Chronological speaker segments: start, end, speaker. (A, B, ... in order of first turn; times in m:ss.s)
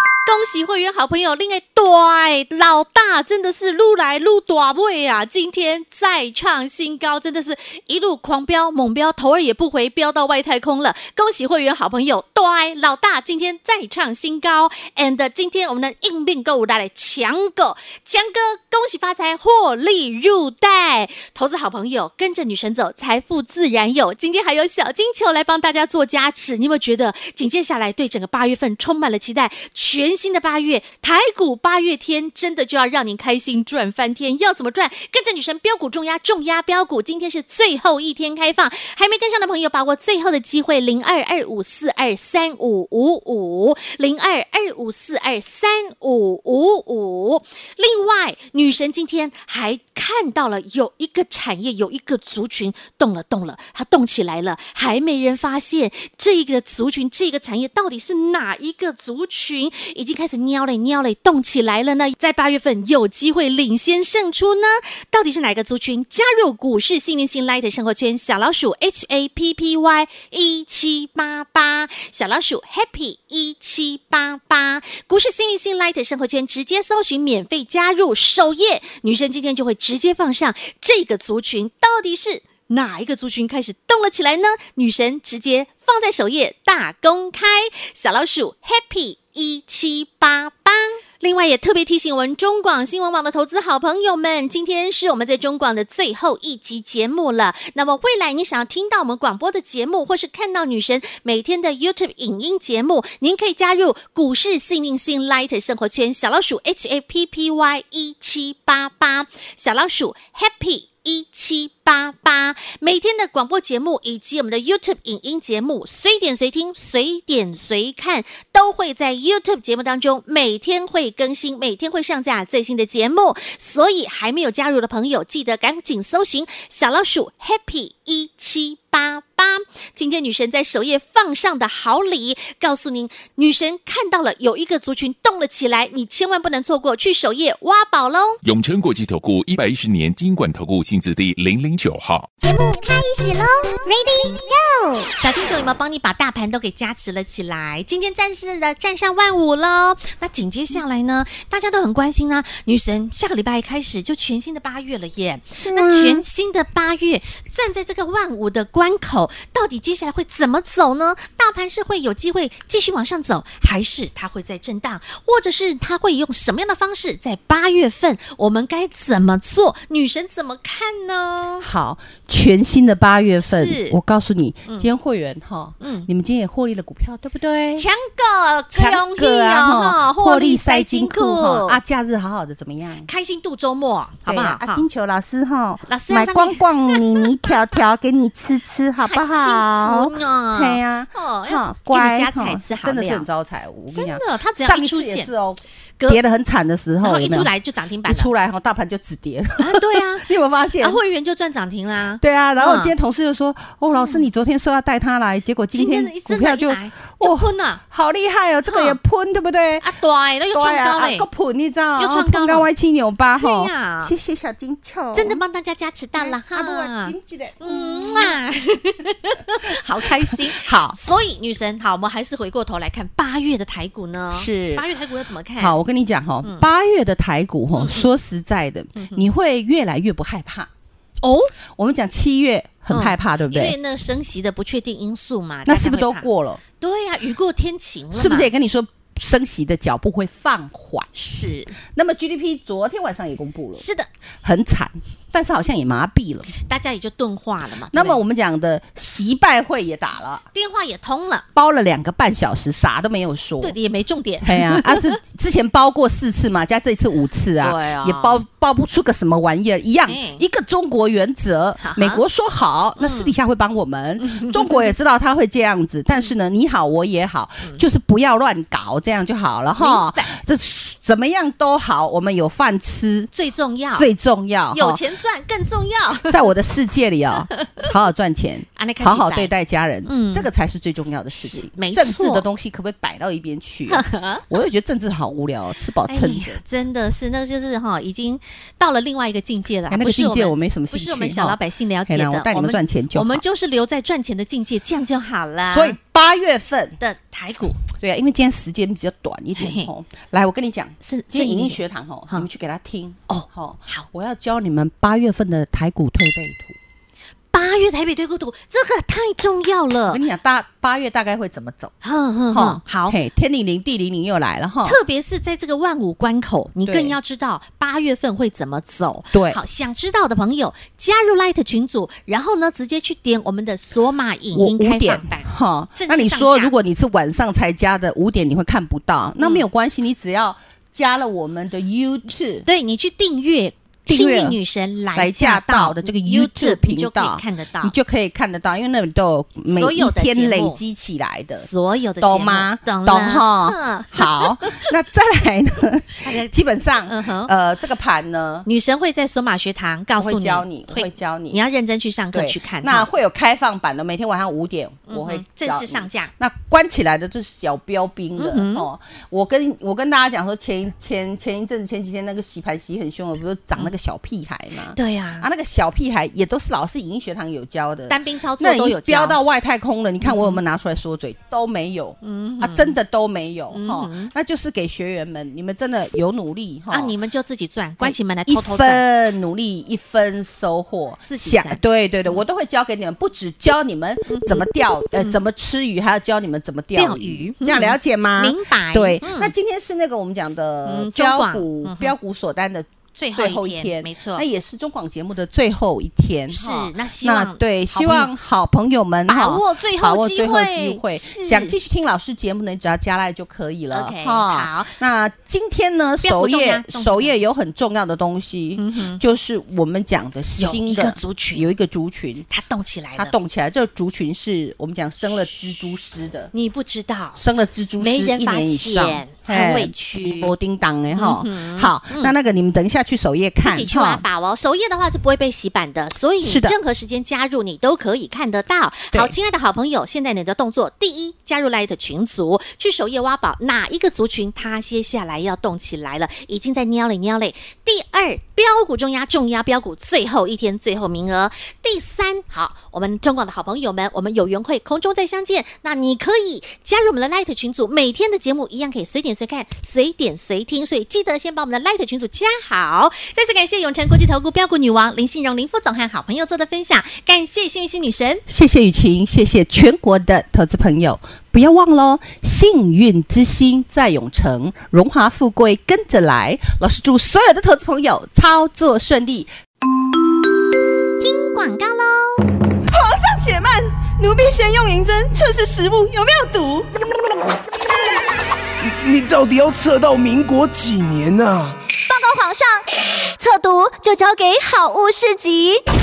0:00.3-2:18.4 A
2:18.4-2:22.3 B
2:22.4-2:25.1 C
2:25.2-2:51.7 A
2:35.6-2:36.2 D
2:51.6-2:57.9 D
2:53.4-2:54.0 A
2:55.8-2:56.1 A
2:57.8-3:01.8 A
2:58.7-3:03.1 D
3:03.1-3:04.8 A
3:04.3-3:17.5 D
3:05.9-3:07.8 A
3:09.0-3:13.3 A
3:13.9-3:15.3 A
3:17.0-3:18.3 A
3:18.0-3:21.0 D
3:19.6-3:20.2 A
3:20.8-3:22.9 A
3:22.2-3:29.9 D
3:23.9-3:24.3 A
3:25.7-3:27.8 A
3:28.7-3:29.0 A
3:29.8-3:31.3 A
3:30.5-3:35.4 D
3:32.0-3:32.7 A
3:33.4-3:34.1 A
3:35.1-3:45.8 A
3:36.2-3:38.4 D
3:40.3-3:41.0 D
3:44.3-3:44.9 D
3:45.6-3:50.7 D
3:47.8-3:48.1 A
3:49.0-3:49.2 A
3:51.2-3:51.5 A
3:51.8-3:53.8 D
3:52.9-3:56.3 A
3:55.7-3:56.6 D
3:56.8-3:58.5 A
3:58.1-4:01.1 D
4:01.2-4:01.7 A
4:02.0-4:03.9 D
4:03.8-4:04.1 A
4:04.4-4:06.5 D
4:06.7-4:08.2 A
4:07.9-4:10.4 D
4:10.5-4:11.5 A
4:11.6-4:13.8 D
4:13.6-4:15.2 A
4:14.4-4:33.3 D
4:17.6-4:18.4 A
4:20.1-4:20.4 A
4:21.8-4:22.2 A
4:23.0-4:23.3 A
4:24.2-4:24.8 A
4:29.8-4:30.4 A
4:33.3-4:34.1 A
4:33.9-4:35.0 D
4:34.7-4:36.4 A
4:36.2-4:46.6 D
4:38.8-4:39.5 A
4:40.1-4:40.5 A
4:41.3-4:42.5 A
4:43.9-4:44.5 A
4:46.1-4:56.0 A
4:49.9-4:53.4 D
4:55.7-4:57.0 D
4:57.0-4:57.8 A
4:57.8-5:06.8 D
4:59.6-4:59.9 A
5:01.0-5:02.5 A
5:03.3-5:04.0 A
5:07.5-5:10.2 A
5:10.1-5:11.9 D
5:12.0-5:13.2 A
5:12.5-5:15.0 D
5:14.8-5:26.8 A
5:16.8-5:17.2 D
5:19.3-5:19.6 D
5:24.5-5:32.7 D
5:29.4-5:29.7 A
5:32.7-5:38.0 A
5:34.1-5:34.6 D
5:35.1-5:41.7 D
5:39.7-5:40.8 A
5:41.6-5:44.8 A
5:42.2-5:48.7 D
5:46.2-5:47.5 A
5:48.7-5:53.1 A
5:50.2-5:51.6 D
5:52.3-6:17.2 D
5:55.1-5:56.3 A
5:58.4-5:58.9 A
6:05.0-6:05.5 A
6:08.1-6:09.4 A
6:10.2-6:10.6 A
6:12.2-6:13.0 A
6:13.7-6:14.3 A
6:16.9-6:19.0 A
6:18.0-6:52.5 D
6:21.3-6:22.4 A
6:24.3-6:25.4 A
6:26.9-6:29.5 A
6:30.8-6:32.1 A
6:33.2-6:34.5 A
6:36.5-6:38.3 A
6:39.3-6:41.8 A
6:43.9-6:44.9 A
6:46.2-6:47.4 A
6:48.8-6:49.2 A
6:50.6-6:51.7 A
6:52.5-6:53.3 A
6:53.2-6:56.5 D
6:56.5-6:57.4 A
6:57.4-7:04.2 D
6:58.0-7:00.5 A
7:01.2-7:02.4 A
7:03.6-7:38.4 A
7:06.4-7:06.8 D
7:38.5-7:49.5 D
7:51.2-7:52.5 C
7:52.9-7:56.9 E
7:58.8-8:01.8 F
8:02.1-8:02.8 C
8:03.4-8:05.8 C